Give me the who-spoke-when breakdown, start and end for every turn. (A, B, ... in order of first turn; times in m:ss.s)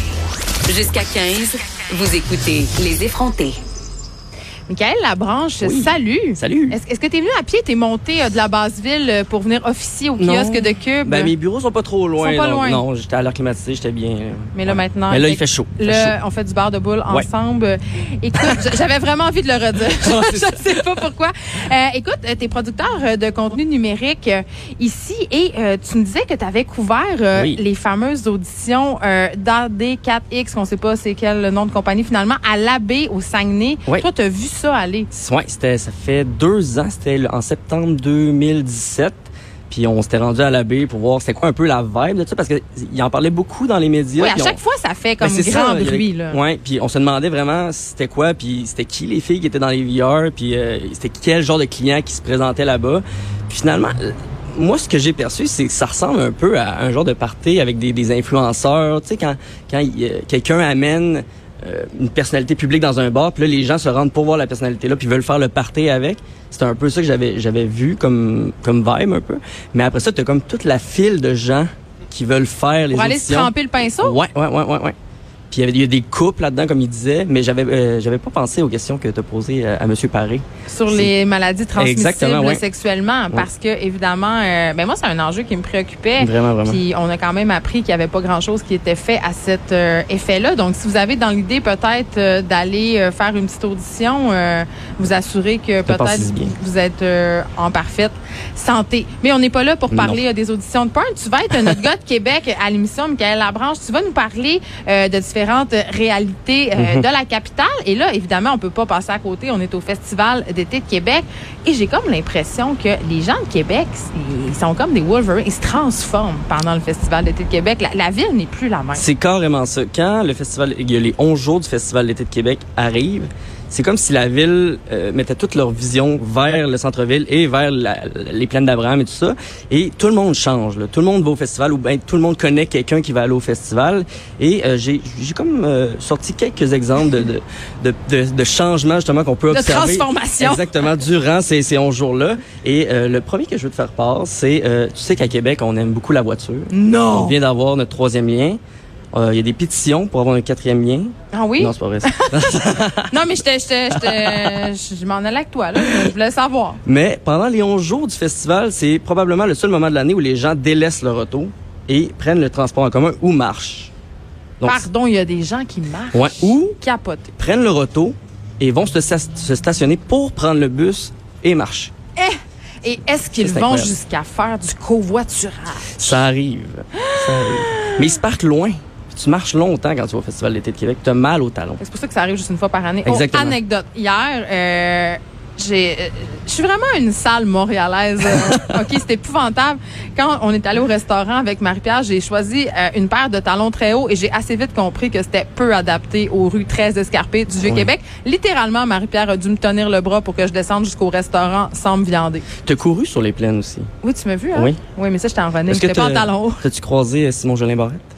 0:00.6-0:03.6 A
0:04.7-0:11.3 B
0:05.6-0:06.8 C
0:10.2-0:16.1 C
0:12.2-0:12.8 B
0:14.5-0:35.1 B
0:19.9-0:21.1 C
0:27.3-0:27.6 C
0:35.1-0:44.6 C
0:44.2-0:46.4 B
0:45.2-1:14.9 C
1:12.9-1:14.2 B
1:15.5-1:21.1 C
1:20.7-1:59.0 B
1:21.7-1:22.6 C
1:26.2-1:26.8 C
1:35.8-1:36.5 C
1:39.9-1:40.2 C
1:46.8-1:47.0 C
1:58.9-2:28.6 C
2:19.5-2:20.6 B
2:26.7-2:27.4 B
2:29.1-2:33.3 C
2:31.3-2:36.8 B
2:33.9-2:34.7 C
2:35.8-2:36.1 C
2:36.8-2:43.9 C
2:44.6-2:44.9 C
2:44.6-2:47.3 B
2:46.1-2:46.8 C
2:47.4-2:51.9 C
2:52.2-2:56.2 B
2:53.4-2:53.9 C
2:55.9-3:01.8 C
2:56.9-2:58.1 B
3:01.8-3:22.5 B
3:03.0-3:03.6 C
3:08.3-3:08.8 C
3:17.6-3:17.9 C
3:22.6-3:23.9 C
3:24.0-3:26.6 B
3:24.5-3:24.8 C
3:25.7-3:28.0 C